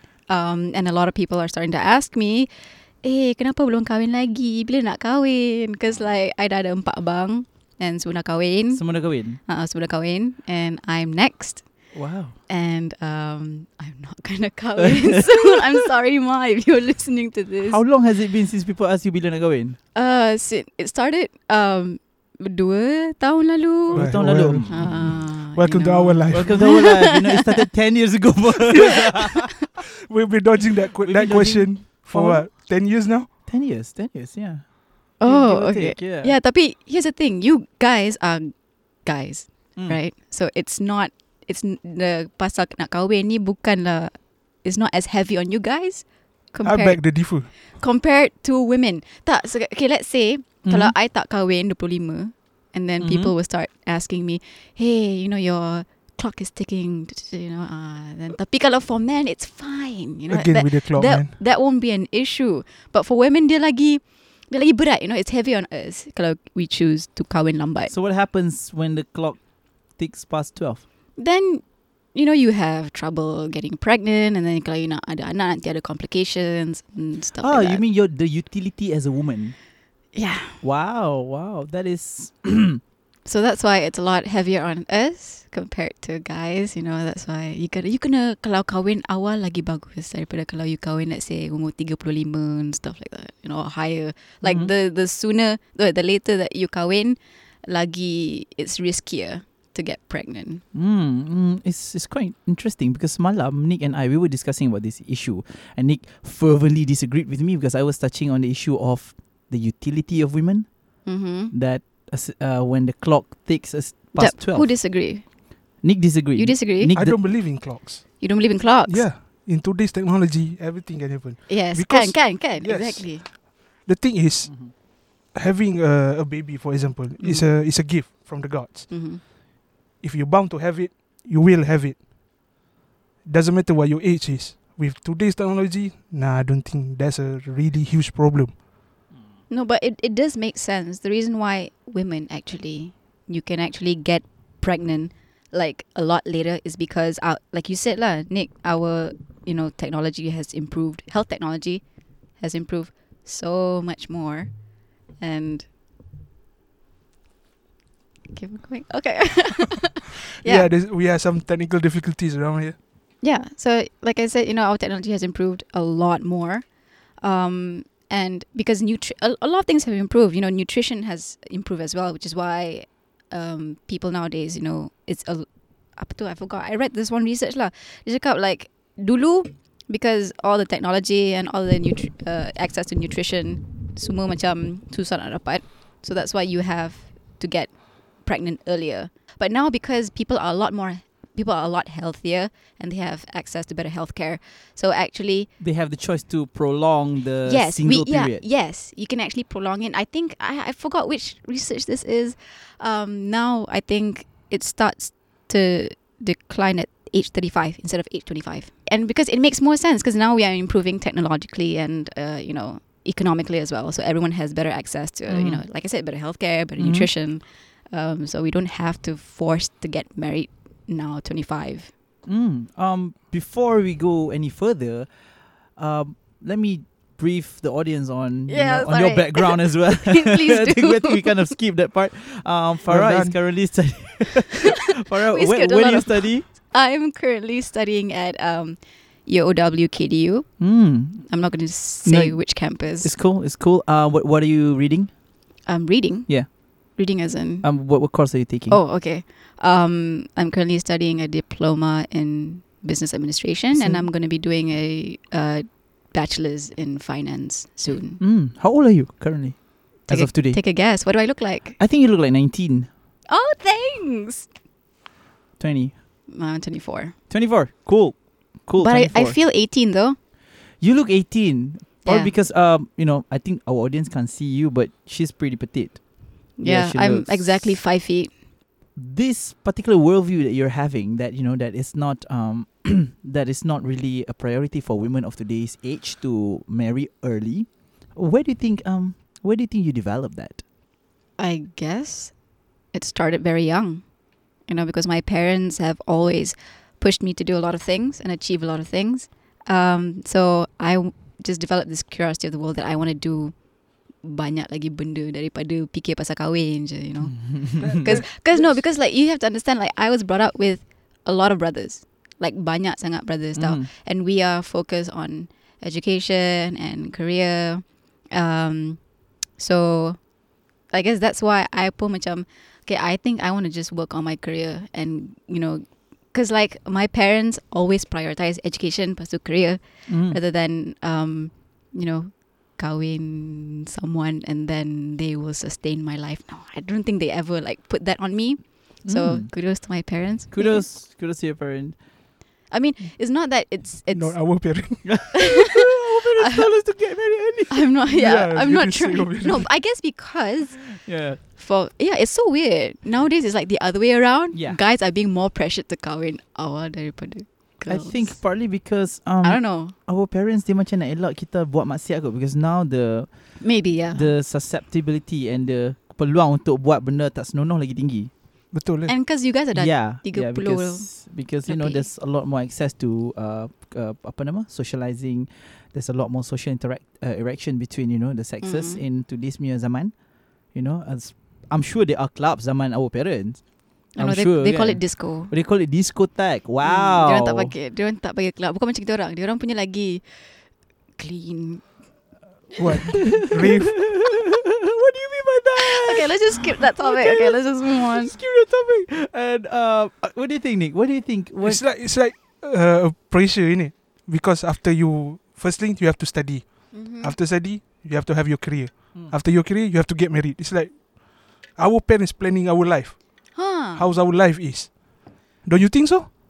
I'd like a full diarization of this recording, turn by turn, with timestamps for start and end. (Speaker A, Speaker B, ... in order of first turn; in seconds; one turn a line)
Speaker A: 0.3-2.5
Speaker A: 3.0-8.8
Speaker B: 8.7-9.4
Speaker A: 9.4-11.7
Speaker B: 11.9-12.3
Speaker A: 12.5-17.8
Speaker B: 14.8-15.7
Speaker B: 17.7-19.8
Speaker A: 19.9-27.4
Speaker B: 23.9-25.3
Speaker C: 23.9-26.8
Speaker B: 26.3-29.5
Speaker C: 30.0-33.3
Speaker B: 31.0-32.5
Speaker B: 33.4-36.3
Speaker A: 35.2-67.9
Speaker C: 46.6-47.5
Speaker B: 50.6-50.9
Speaker B: 53.0-53.3
Speaker C: 60.3-61.3
Speaker B: 67.9-70.8
Speaker A: 71.2-77.8
Speaker B: 77.4-79.5
Speaker A: 80.1-80.6
Speaker B: 80.6-82.8
Speaker A: 83.2-100.6
Speaker B: 94.4-94.7
Speaker B: 100.7-110.7
Speaker A: 111.0-111.5
Speaker B: 111.5-114.7
Speaker A: 114.2-115.2
Speaker B: 115.8-117.2
Speaker A: 116.4-116.9
Speaker C: 116.9-118.2
Speaker A: 118.2-119.0
Speaker C: 118.8-128.9
Speaker A: 121.5-123.2
Speaker B: 124.5-124.7
Speaker A: 128.9-129.2
Speaker C: 130.0-132.0
Speaker C: 133.2-138.6
Speaker A: 139.5-151.8
Speaker A: 152.4-154.5
Speaker A: 155.2-155.7
Speaker A: 158.3-160.7
Speaker C: 160.4-162.8
Speaker A: 163.2-195.5
Speaker B: 195.6-198.4
Speaker A: 197.4-221.9
Speaker B: 215.3-215.6
Speaker B: 216.8-217.1
Speaker B: 222.2-225.1
Speaker B: 225.7-236.5
Speaker A: 228.5-231.5
Speaker C: 232.9-233.3
Speaker A: 235.3-240.5
Speaker B: 240.6-241.3
Speaker A: 241.2-243.1
Speaker B: 242.0-245.1
Speaker A: 245.7-247.7
Speaker B: 247.6-248.8
Speaker A: 248.7-258.2
Speaker B: 253.7-254.1
Speaker B: 258.2-260.6
Speaker A: 260.1-261.8
Speaker B: 261.8-262.9
Speaker A: 263.3-264.5
Speaker B: 265.6-265.9
Speaker A: 266.3-267.1
Speaker B: 267.3-269.4
Speaker A: 268.8-270.2
Speaker B: 270.8-277.8
Speaker A: 272.0-272.3
Speaker A: 276.6-278.3
Speaker B: 278.9-290.6
Speaker A: 291.4-292.3
Speaker A: 292.9-294.0
Speaker A: 294.7-303.6
Speaker A: 304.2-319.0
Speaker B: 307.2-308.2
Speaker C: 307.8-308.8
Speaker B: 313.6-313.9
Speaker A: 319.6-320.2
Speaker A: 320.9-340.8
Speaker B: 330.1-330.4
Speaker B: 339.1-339.5
Speaker B: 340.5-342.0
Speaker A: 342.7-344.7
Speaker C: 344.1-345.3
Speaker B: 345.0-347.9
Speaker A: 345.4-346.6
Speaker A: 347.7-358.4
Speaker C: 348.1-349.7
Speaker B: 350.8-351.4
Speaker B: 354.5-354.8
Speaker B: 357.9-368.3
Speaker A: 359.4-359.9
Speaker A: 363.6-364.3
Speaker C: 368.7-369.1
Speaker A: 369.1-372.1
Speaker B: 369.7-380.1
Speaker A: 378.6-379.0
Speaker B: 380.7-387.7
Speaker A: 384.1-385.5
Speaker A: 386.8-390.2
Speaker A: 391.1-391.8
Speaker C: 392.8-394.3
Speaker B: 392.9-401.8
Speaker A: 395.8-398.3
Speaker C: 401.6-415.0
Speaker A: 406.9-407.4
Speaker A: 413.5-414.1
Speaker C: 415.6-416.3